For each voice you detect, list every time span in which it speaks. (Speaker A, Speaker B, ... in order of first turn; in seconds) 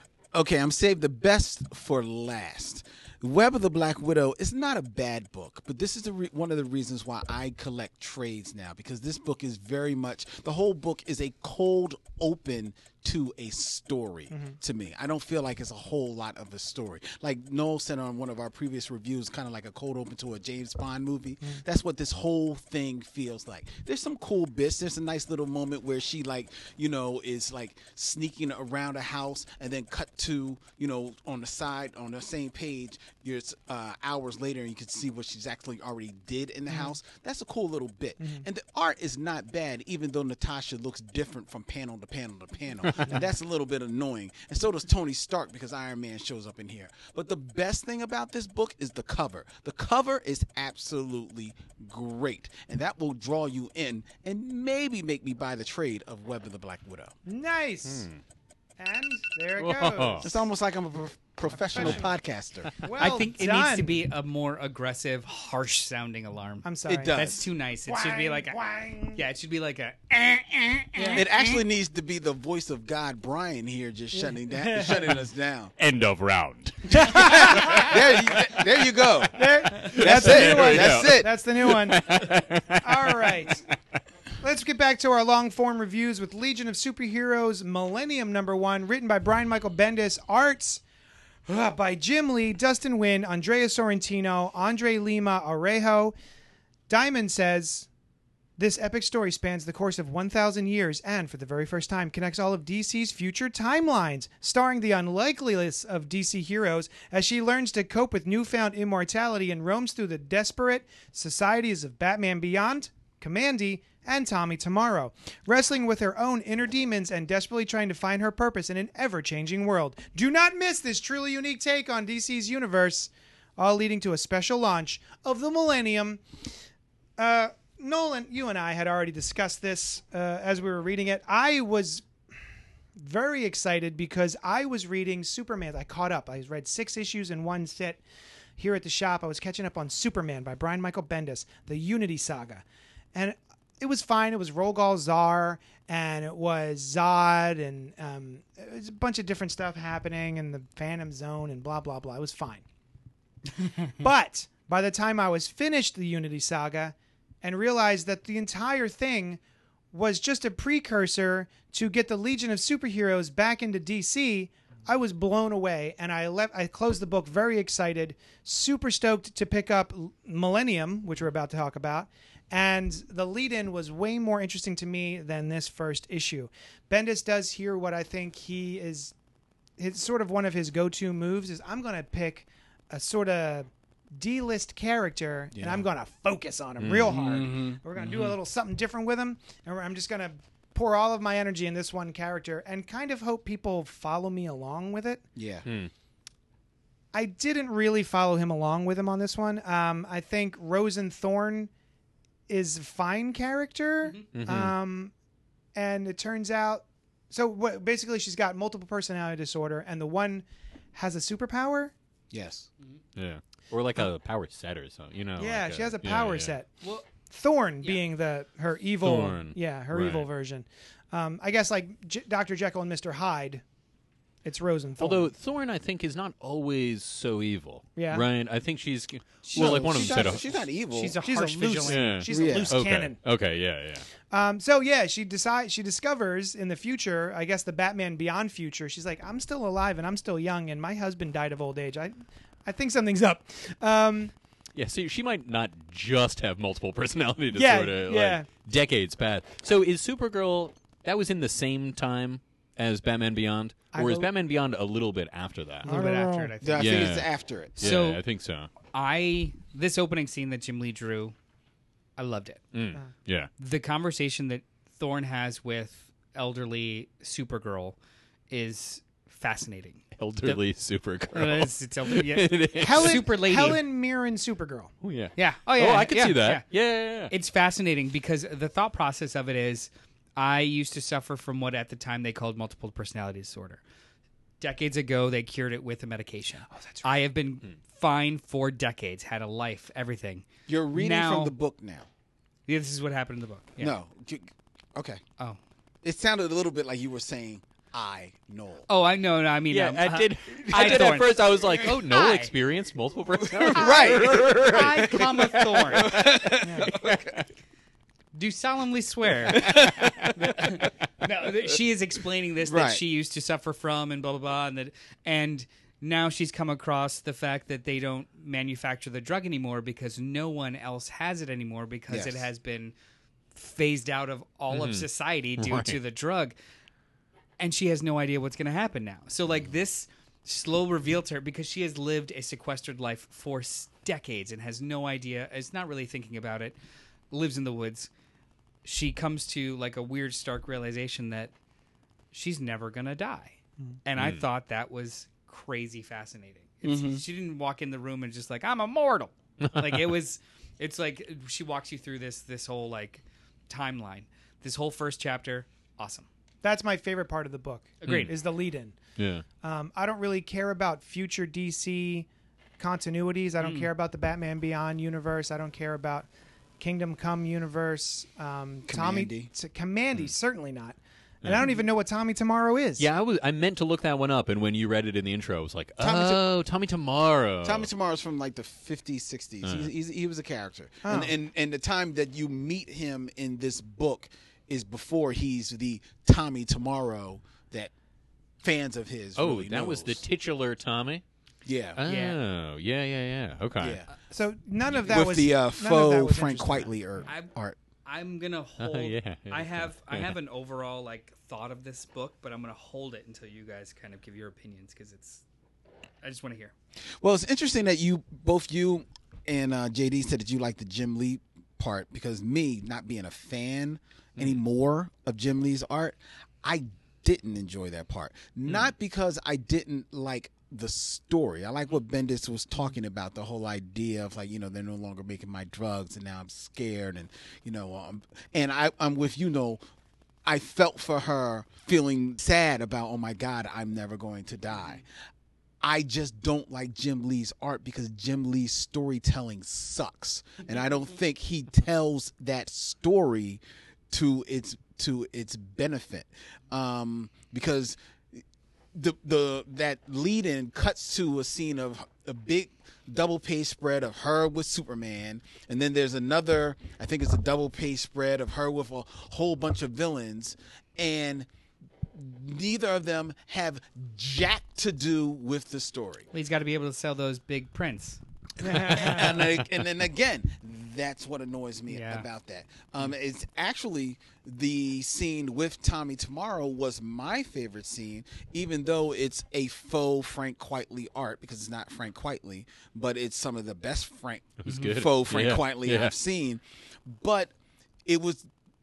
Speaker A: 0.3-57.1, 60.2-62.7, 66.9-67.5, 71.1-75.7, 76.9-81.3, 185.5-185.9, 187.0-187.8, 195.4-195.7, 212.3-212.7, 229.6-231.2, 232.3-232.8, 256.6-257.9, 290.7-292.1, 293.8-295.2, 296.0-298.9, 300.8-301.1, 303.4-307.1, 309.6-310.1, 312.6-313.0, 322.1-322.5, 346.8-347.2, 368.9-369.5, 376.0-376.4, 377.6-387.9, 388.6-390.2, 391.6-392.0, 393.8-394.1, 395.0-397.8, 407.2-429.8, 430.5-435.1, 435.8-448.4, 448.9-461.5, 462.1-466.3, 468.6-487.5, 488.1-488.5
Speaker B: 14.3-14.6, 36.7-37.0, 57.3-58.1, 58.8-60.4, 61.5-62.1, 62.8-64.0, 66.6-67.2, 67.8-69.2, 70.9-71.3, 74.3-75.1, 77.0-77.8, 79.3-83.7, 84.4-90.8, 91.5-96.2, 96.9-97.9, 98.6-126.2, 127.2-132.1, 133.0-138.0, 138.6-152.6, 154.0-159.4, 159.9-179.1, 179.8-195.2, 197.1-201.7, 202.5-205.1, 205.8-211.9, 215.4-223.6, 224.4-225.3, 228.0-228.3, 231.2-233.2, 234.3-244.3, 247.5-248.5, 253.9-254.3, 255.8-256.5, 272.8-274.9, 286.7-287.1, 306.6-306.9, 356.6-359.0, 359.6-362.3, 362.8-366.3, 366.8-373.1, 381.1-381.3, 394.3-396.9, 468.6-469.4
Speaker C: 57.9-58.2, 59.6-60.3, 61.8-62.0, 75.8-78.6, 79.8-83.6, 186.8-187.2, 188.0-188.3, 195.7-195.9, 204.3-204.8, 213.2-216.5, 219.0-220.3, 225.0-230.7, 231.9-234.1, 244.8-255.9, 256.8-258.7, 262.7-263.5, 270.2-273.2, 275.0-277.3, 299.7-307.4, 309.7-310.4, 324.7-326.0, 344.2-344.4, 349.6-350.1, 358.1-358.3, 359.2-359.4, 371.4-371.7, 373.0-377.9, 389.4-391.2, 392.0-394.0, 398.8-400.3, 484.6-486.1
Speaker D: 63.0-68.6, 69.1-71.2, 216.8-217.1, 229.5-230.4, 230.9-232.6, 255.8-257.1, 257.8-258.2, 258.9-261.4, 262.2-262.6, 263.6-268.0, 268.5-270.6, 271.3-273.8, 275.4-276.7, 277.3-283.8, 284.6-291.6, 292.7-294.0, 298.9-302.5, 303.8-306.2, 308.3-322.9, 323.5-326.6, 327.6-336.8, 337.3-338.1, 338.8-341.5, 342.3-356.3, 358.0-358.3, 363.6-363.9, 392.1-392.4, 397.2-397.5, 398.1-405.4, 406.2-406.7, 466.3-468.2, 471.9-472.3, 484.7-485.0